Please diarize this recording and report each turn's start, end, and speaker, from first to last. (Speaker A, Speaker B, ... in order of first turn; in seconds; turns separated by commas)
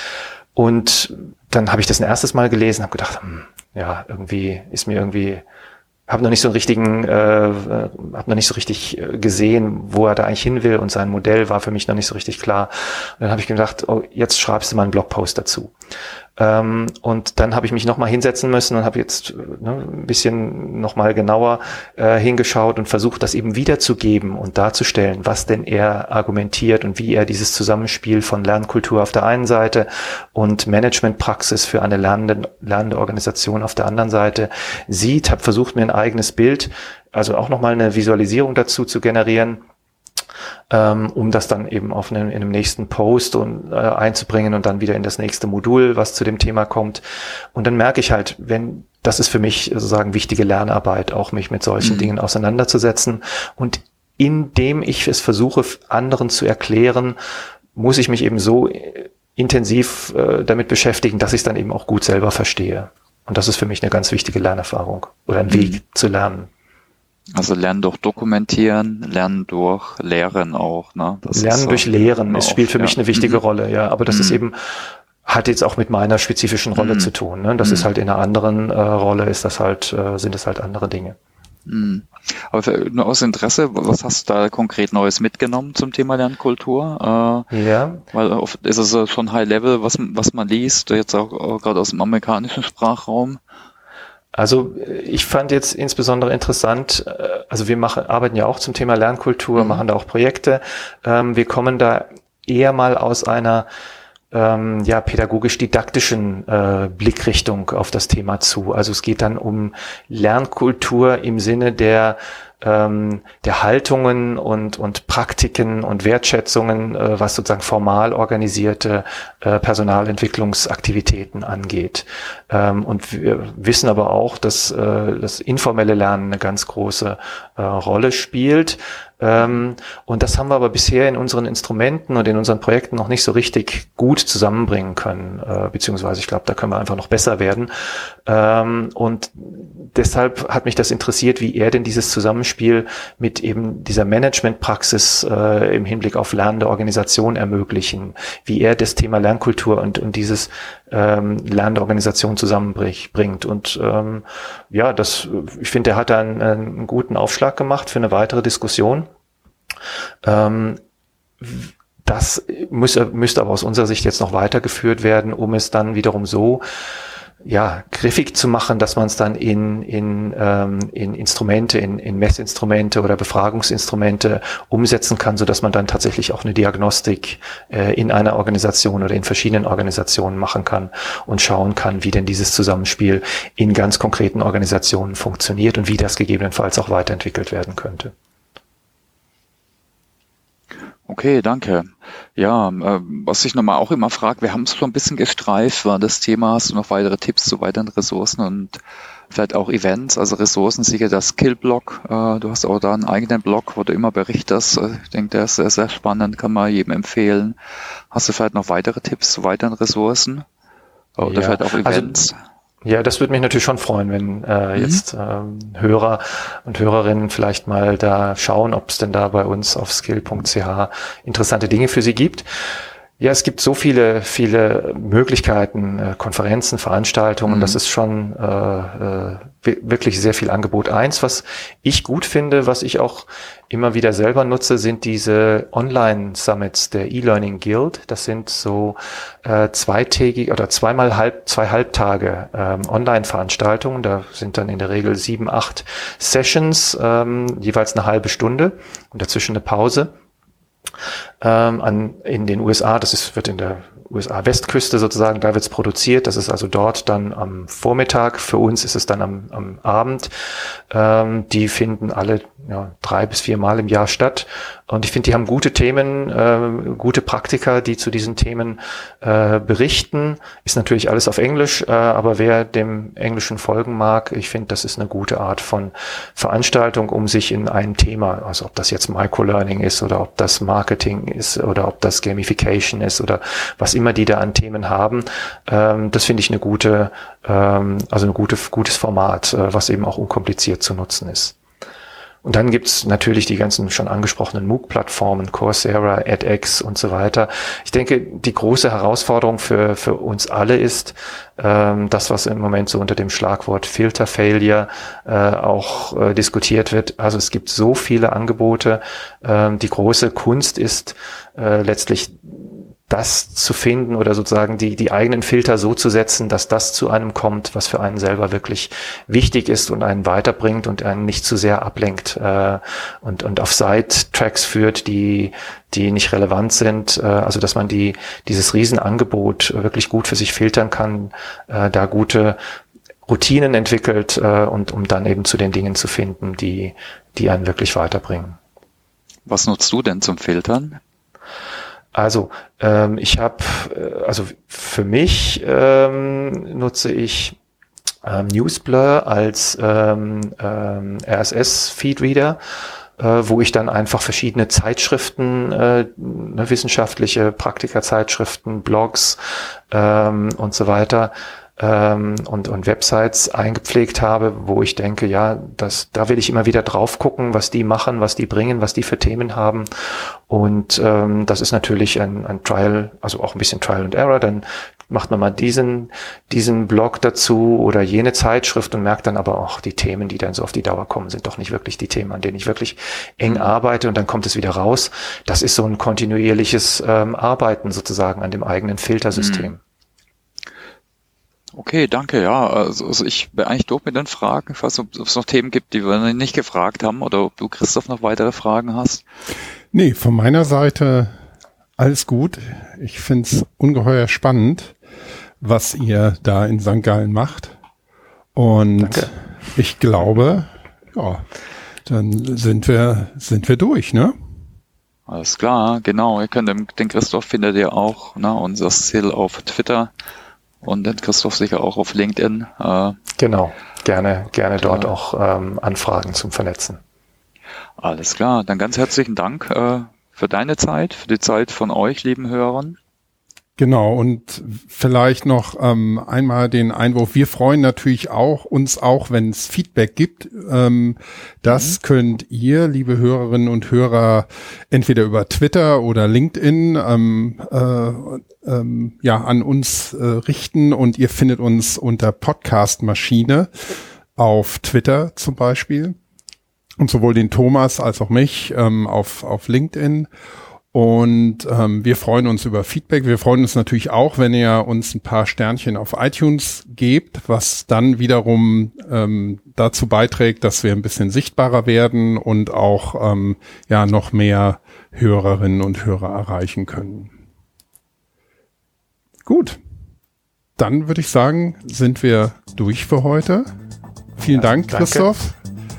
Speaker A: 0.5-5.4, Speaker A: 6.1-15.7, Speaker A: 16.4-39.6, Speaker A: 40.7-47.0, Speaker A: 47.5-57.2, Speaker B: 51.8-52.1, Speaker A: 57.7-66.5, Speaker B: 65.5-65.8, Speaker B: 67.3-73.4, Speaker A: 71.3-81.2, Speaker B: 74.1-74.4, Speaker B: 76.8-77.9, Speaker B: 81.7-87.5, Speaker A: 87.5-88.0, Speaker B: 88.1-93.4, Speaker A: 94.3-103.7, Speaker B: 99.5-99.8, Speaker A: 104.3-159.1, Speaker A: 160.2-160.8, Speaker A: 161.4-166.6, Speaker A: 167.4-188.1, Speaker B: 191.1-198.8, Speaker B: 199.3-207.6, Speaker B: 208.1-210.4, Speaker B: 211.2-212.3, Speaker A: 211.2-212.3, Speaker A: 212.8-222.4, Speaker B: 214.8-215.0, Speaker A: 223.2-250.1, Speaker B: 227.5-227.8, Speaker A: 251.4-291.6, Speaker A: 292.4-332.6, Speaker A: 333.3-338.6, Speaker B: 339.4-341.0, Speaker A: 342.1-347.6, Speaker A: 348.2-352.6, Speaker A: 353.2-359.4, Speaker A: 359.9-389.8, Speaker B: 383.4-383.7, Speaker B: 389.4-389.7, Speaker B: 391.7-399.2, Speaker C: 399.9-401.3, Speaker C: 402.0-404.9, Speaker C: 405.6-407.7, Speaker C: 408.5-411.4, Speaker A: 409.0-409.7, Speaker C: 412.1-414.3, Speaker B: 415.3-420.1, Speaker B: 420.8-423.2, Speaker A: 423.4-427.0, Speaker B: 424.8-425.1, Speaker B: 428.0-432.9, Speaker C: 433.8-453.7, Speaker B: 441.6-442.0, Speaker C: 454.4-456.2, Speaker C: 457.0-460.3, Speaker C: 460.9-477.3, Speaker C: 479.4-479.8, Speaker C: 480.8-483.7, Speaker C: 484.4-485.6, Speaker A: 484.5-485.3